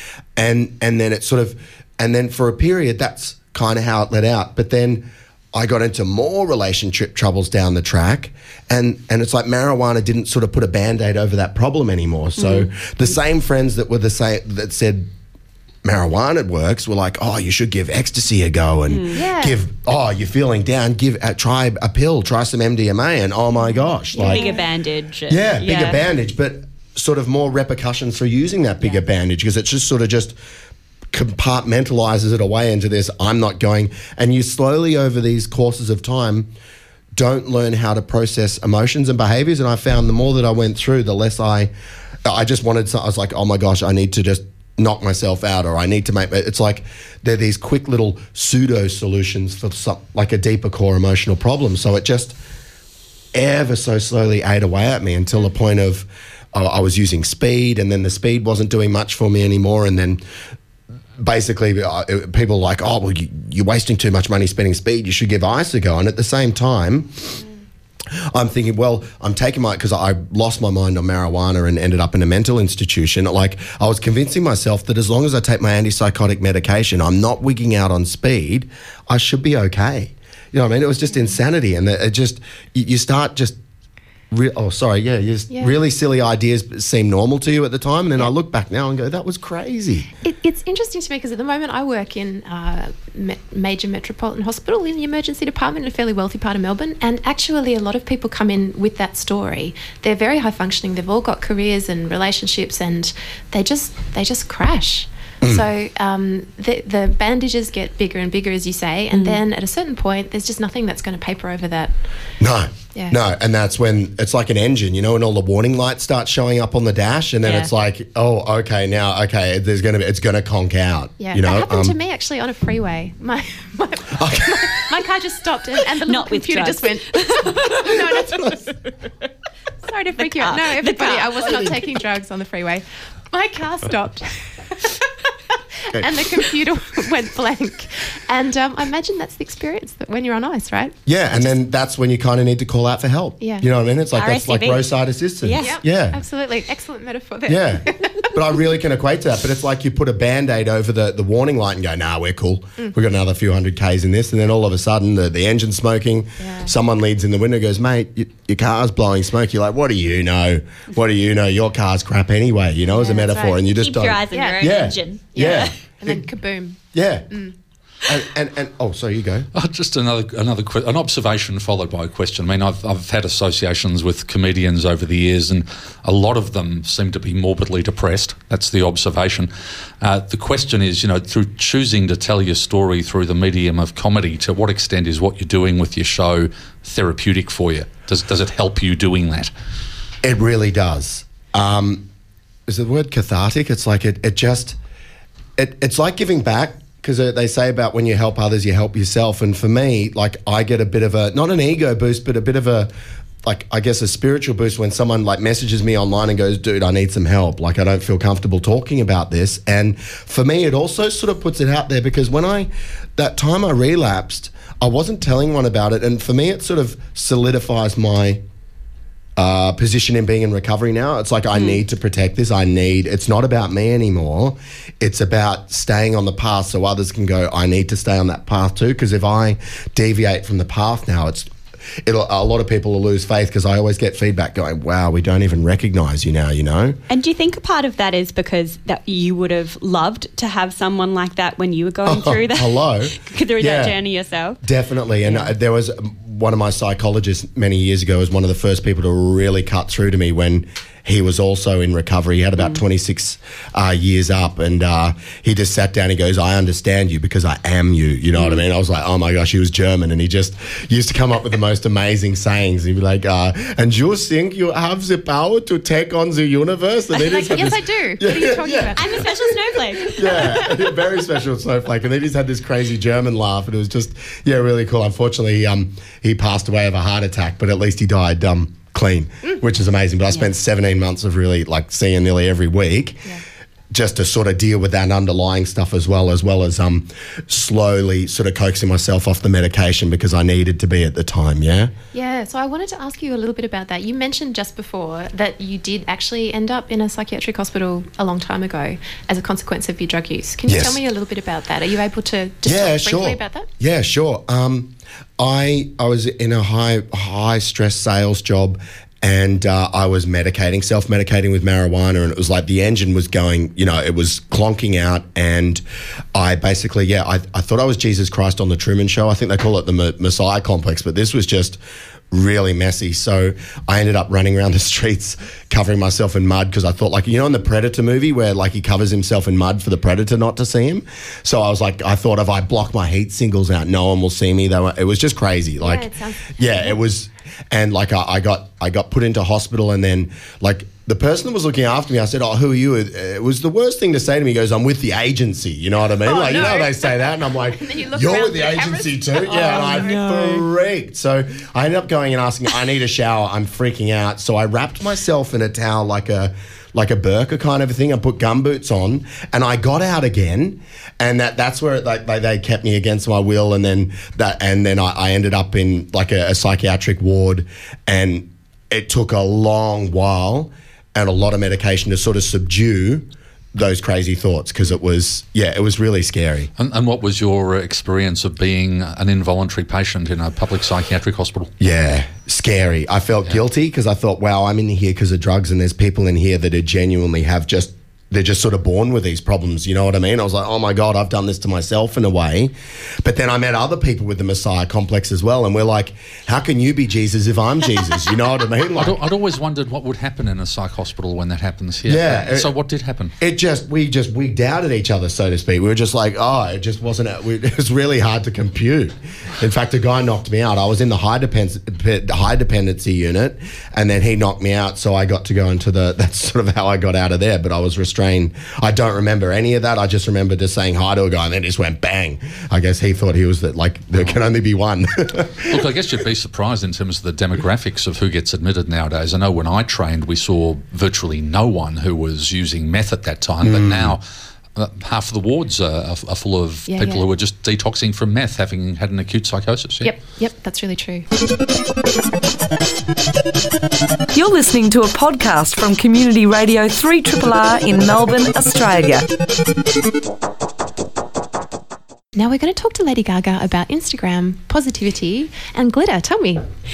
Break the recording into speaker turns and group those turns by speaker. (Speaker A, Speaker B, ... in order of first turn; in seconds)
Speaker A: 0.4-15.1, 15.8-24.6, 25.3-30.4, 31.1-36.5, 37.1-41.7, 42.2-52.4, 53.3-60.2, 61.2-67.3, 68.2-83.6, 84.3-90.1, 112.4-122.0, 124.1-124.8, 141.1-146.2, 147.5-166.2, 166.9-167.3, 168.0-169.5, 190.2-192.1, 192.7-194.8, 195.6-202.9, 203.4-218.4, 219.4-231.5, 232.0-237.0, 242.1-244.0, 244.6-283.3, 283.9-291.9, 300.7-301.0, 302.6-315.8, 316.3-321.8, 322.3-376.7, 381.8-399.2, 402.1-402.7, 403.4-425.8, 433.6-434.2
Speaker B: 12.4-12.7, 18.9-19.1, 24.2-26.0, 109.1-109.4, 126.0-128.2, 130.2-131.8, 144.2-144.9, 145.4-145.8, 163.8-165.7, 237.1-244.6, 245.2-245.5, 268.9-270.9, 349.7-350.7
Speaker C: 19.1-19.6, 24.1-24.6, 85.5-85.8, 90.2-111.9, 121.2-128.8, 129.8-134.9, 135.9-141.5, 143.4-143.7, 145.6-148.3, 156.4-156.7, 162.9-163.6, 164.3-164.8, 165.3-167.5, 267.2-269.1, 292.1-303.7, 335.8-337.0, 346.2-350.2, 436.9-437.2, 440.0-441.3, 452.4-456.6
Speaker D: 169.5-179.5, 180.0-189.5, 376.8-381.7, 399.0-403.3, 425.7-434.2, 434.8-440.1
Speaker E: 444.3-449.3